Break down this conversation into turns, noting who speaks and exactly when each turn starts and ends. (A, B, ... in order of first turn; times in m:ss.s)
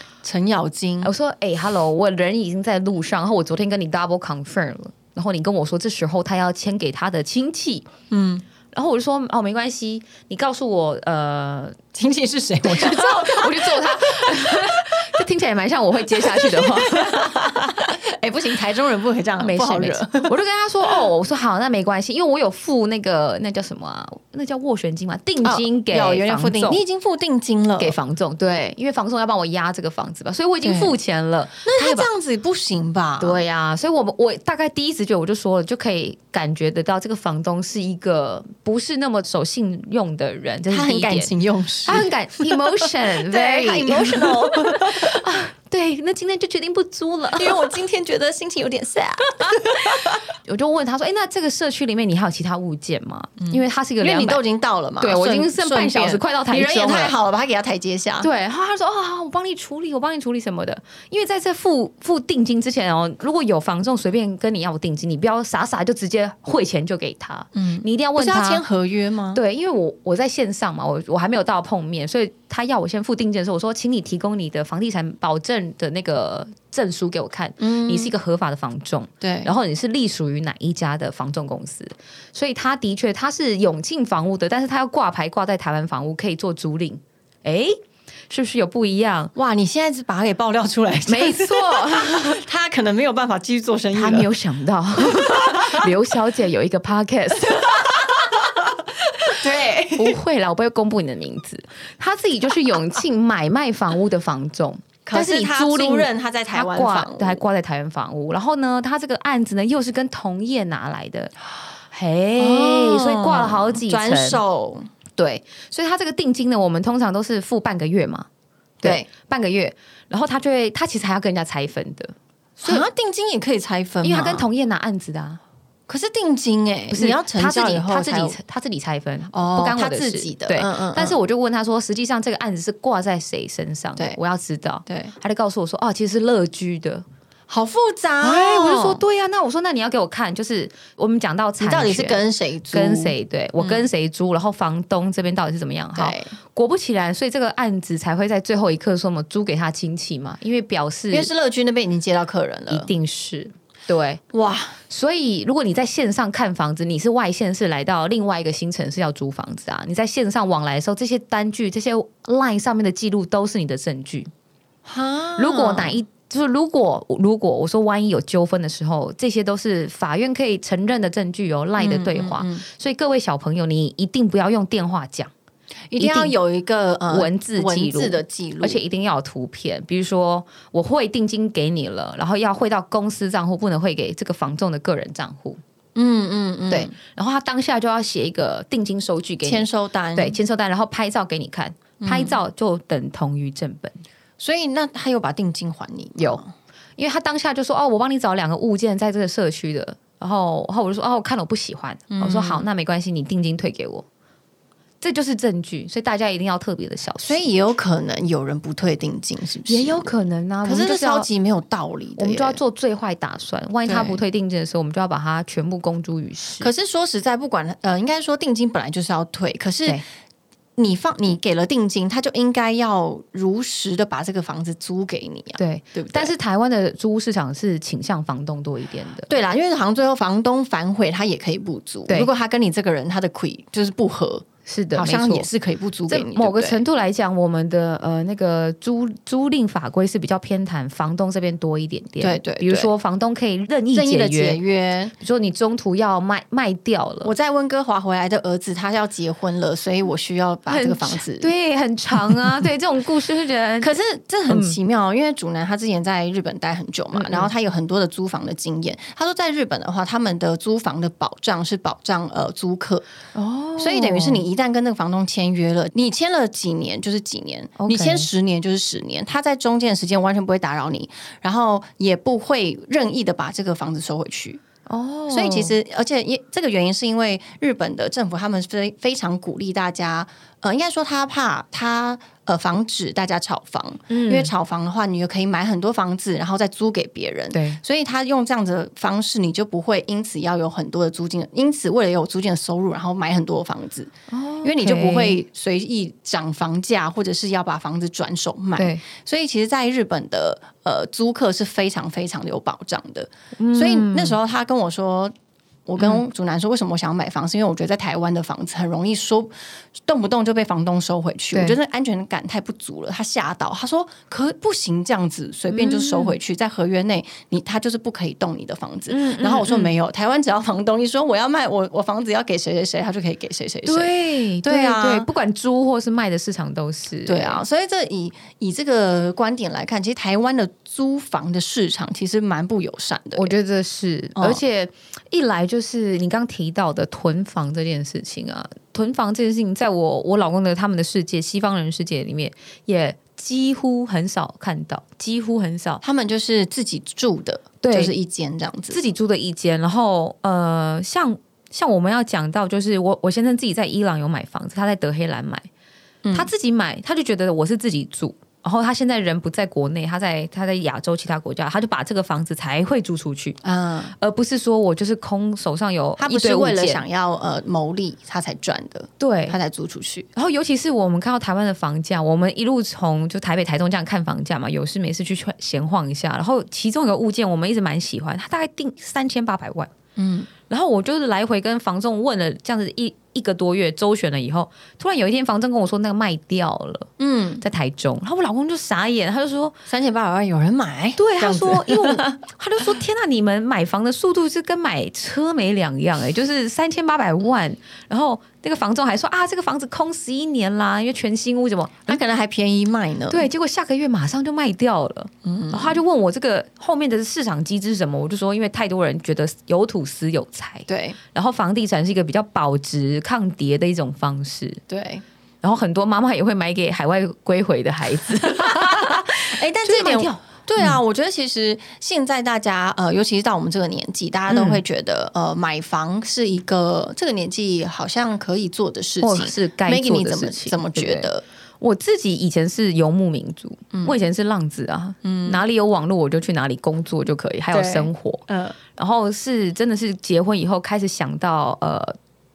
0:00.2-0:01.1 A
0:01.0-0:07.9 B
0:08.1-0:08.4 A
0:08.7-0:11.8 B
0:11.9-0:14.8 A
0:12.6-0:17.5 B
0:16.2-0:20.3 A
0:19.4-0:26.8 B
0:25.4-0:28.0 A
0:27.8-0:32.1 B
0:30.6-0:30.9 A
0:31.6-0:33.4 A
0:33.2-0:41.3 B
0:40.7-0:45.2 A
0:41.8-0:47.7 B
0:47.4-0:50.2 A
0:49.5-0:54.4 B
0:53.4-0:58.3 A
0:55.0-0:57.1 B
0:58.2-1:08.6 B
1:07.5-1:09.4 A
1:09.3-1:27.8 B
1:17.6-1:18.1 A
1:19.2-1:19.5 A
1:28.3-1:29.3 B
1:29.3-1:34.3 A
1:31.1-1:32.4 B
1:33.9-1:38.1 B
1:35.1-1:35.9 A
1:37.5-1:38.6 A
1:39.3-1:40.2 A
1:40.0-1:51.3 B
1:45.0-1:47.4 A
1:51.9-1:54.4 B
1:52.4-1:54.9 A
1:55.2-1:58.3 B
1:58.8-2:02.8 B
2:02.6-2:04.4 A
2:04.0-2:05.4 B
2:05.9-2:08.4 A
2:06.9-2:17.0 B
2:09.3-2:11.2 A
2:14.9-2:15.1 A
2:17.5-2:19.0 A
2:18.2-2:31.3 B
2:21.6-2:23.8 A
2:26.0-2:26.3 A
2:31.1-2:32.9 A
2:32.7-2:34.2 B
2:34.3-2:34.8 A
2:34.9-2:44.3 B
2:44.8-2:46.0 A
2:45.4-2:55.3 B
2:51.8-2:52.6 A
2:55.9-2:58.8 A
2:56.0-2:56.3 B
2:57.1-3:05.6 B
3:05.9-3:06.9 A
3:06.7-3:14.0 B
3:09.4-3:10.4 A
3:12.0-3:12.4 A
3:14.4-3:16.5 A
3:17.0-3:24.0 B
3:22.1-3:22.6 A
3:25.0-3:27.5 B
3:27.2-3:30.1 A
3:29.7-3:31.3 B
3:30.6-3:32.6 A
3:32.2-3:36.7 B
3:33.8-3:34.2 A
3:36.6-3:40.0 A
3:40.8-3:46.3 A
3:45.6-3:49.3 B
3:49.3-3:56.8 A
3:54.6-3:55.5 B
3:56.1-4:04.6 B
4:02.2-4:02.9 A
4:03.9-4:05.1 A
4:05.2-4:07.3 B
4:07.2-4:11.5 A
4:10.7-4:13.9 B
4:13.8-4:23.0 A
4:14.5-4:14.8 B
4:17.1-4:17.5 B
4:23.3-4:24.4 B
4:23.8-4:34.6 A
4:27.8-4:28.3 B
4:34.9-4:35.7 B
4:35.3-5:05.3 A
4:44.1-4:44.5 B
4:47.5-4:47.8 B
4:54.3-4:55.4 B
4:58.8-4:59.0 B
5:03.6-5:04.4 B
5:05.9-5:25.3 A
5:15.7-5:16.4 B
5:19.1-5:19.9 B
5:23.8-5:27.6 B
5:27.2-5:33.5 A
5:33.4-5:46.0 B
5:34.4-5:34.6 A
5:46.0-5:49.0 A
5:47.8-5:48.1 B
5:48.9-5:55.7 B
5:56.2-5:56.5 A
5:56.3-6:03.6 B
6:03.6-6:04.1 A
6:04.2-6:07.0 B
6:06.2-6:10.3 A
6:09.2-6:09.6 B
6:10.3-6:19.9 B
6:20.2-6:20.5 A
6:20.7-6:27.1 B
6:27.2-6:27.6 A
6:27.6-6:29.8 B
6:29.9-6:32.4 A
6:31.2-6:42.2 B
6:42.1-6:43.4 A
6:43.3-6:54.8 B
6:45.4-6:46.0 A
6:50.9-6:51.2 A
6:54.9-6:55.2 A
6:55.6-7:00.9 B
6:58.6-7:11.4 A
7:04.5-7:04.8 B
7:09.2-7:11.3 B
7:11.8-7:18.4 B
7:15.2-7:15.6 A
7:17.7-7:18.8 A
7:19.0-7:22.2 B